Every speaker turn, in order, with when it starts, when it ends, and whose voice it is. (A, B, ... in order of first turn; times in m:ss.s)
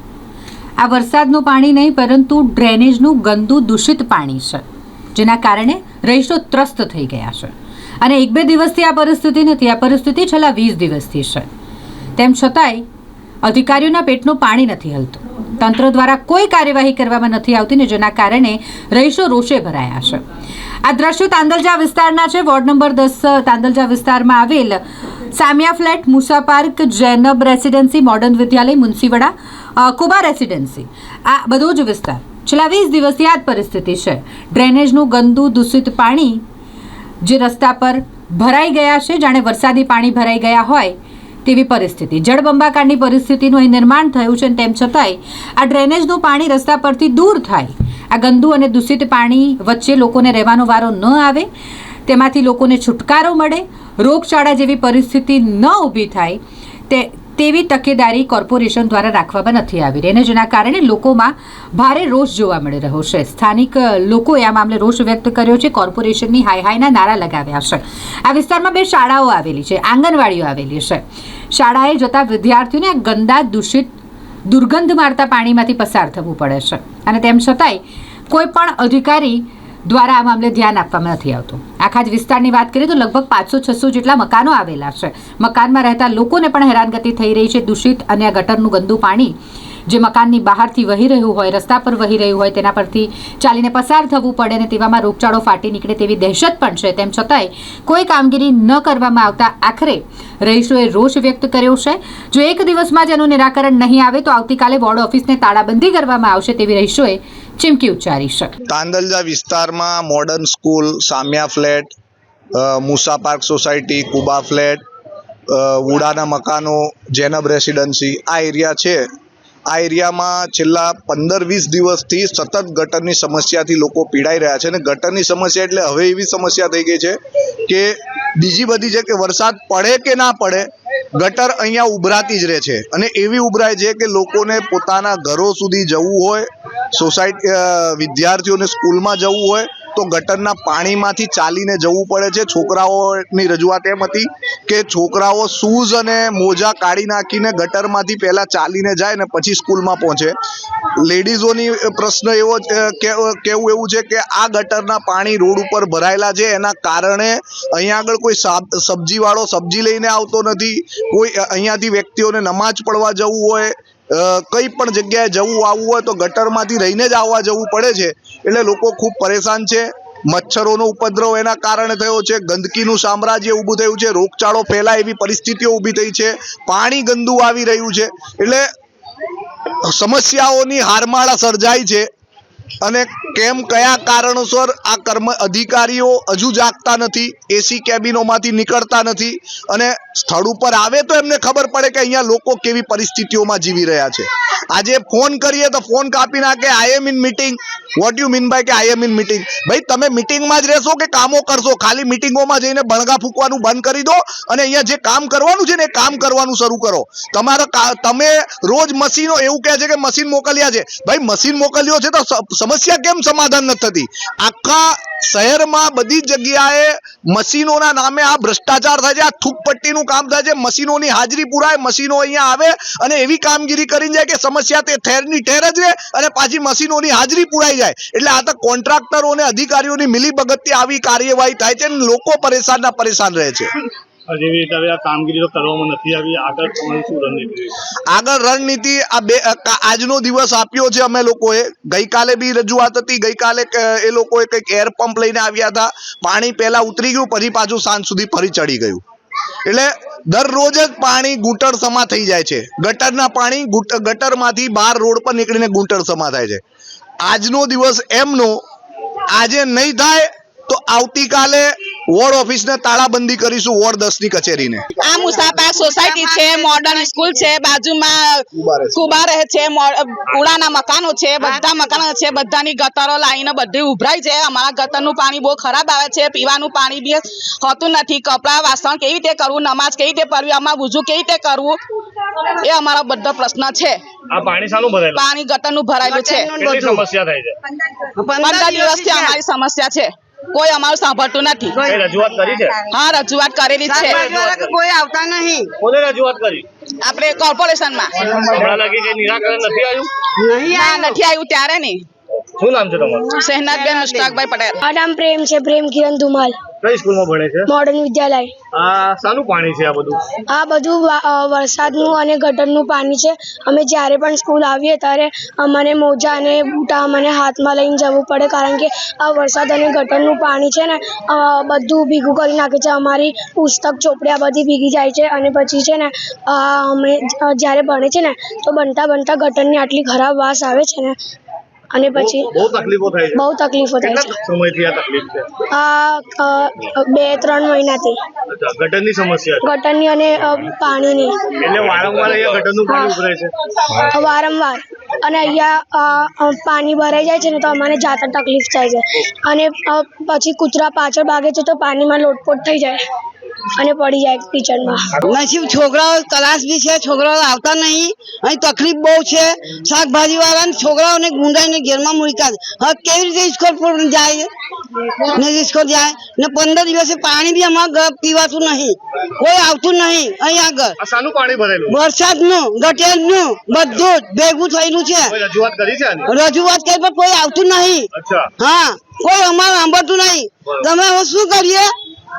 0:00.8-0:11.5 A
0:12.2-0:12.8 A
0:13.4-0:20.2 A
0:20.8-0:24.8 A
0:25.3-0:36.4 A
0:37.2-0:51.5 A
0:52.1-1:13.9 A
1:14.5-1:29.4 A
1:29.9-1:48.6 A
1:48.7-1:51.9 B
1:52.6-1:54.8 B
1:55.5-1:59.0 B
1:59.7-2:30.4 B
2:31.0-2:58.7 B
2:59.8-3:02.1 B
3:02.8-3:53.7 B
3:54.3-3:57.8 C
3:58.1-4:09.0 B
4:09.7-4:16.6 B
4:17.2-4:18.6 B
4:19.3-4:24.9 B
4:25.0-4:41.8 D
4:25.3-4:27.4 E
4:42.5-4:44.0 D
4:44.3-4:45.2 C
4:45.1-4:46.6 D
4:46.0-4:47.0 E
4:46.6-4:47.6 C
4:47.9-4:49.4 E
4:48.4-4:51.9 D
4:51.8-4:52.7 E
4:51.8-4:52.8 C
4:52.9-4:54.5 D
4:53.8-4:55.7 E
4:55.8-4:56.7 C
4:57.0-4:58.3 D
4:58.2-5:00.1 C
5:00.4-5:01.2 E
5:00.7-5:02.0 D
5:02.4-5:03.3 C
5:03.3-5:04.8 D
5:03.7-5:04.4 E
5:04.8-5:06.6 F
5:06.8-5:07.7 C
5:07.7-5:08.5 F
5:08.8-5:10.3 C
5:10.5-5:31.2 F
5:31.9-5:32.5 F
5:32.1-5:33.4 C
5:33.3-5:34.3 F
5:34.0-5:35.6 C
5:35.7-5:38.2 F
5:38.5-5:39.7 C
5:39.6-5:41.5 F
5:41.6-5:43.5 C
5:42.9-5:43.2 F
5:44.0-5:53.0 F
5:53.8-5:55.1 F
5:55.3-6:04.5 E
6:05.3-6:11.0 E
6:11.0-6:12.0 C
6:11.9-6:15.4 E
6:15.3-6:16.3 C
6:16.2-6:21.9 E
6:18.1-6:18.5 C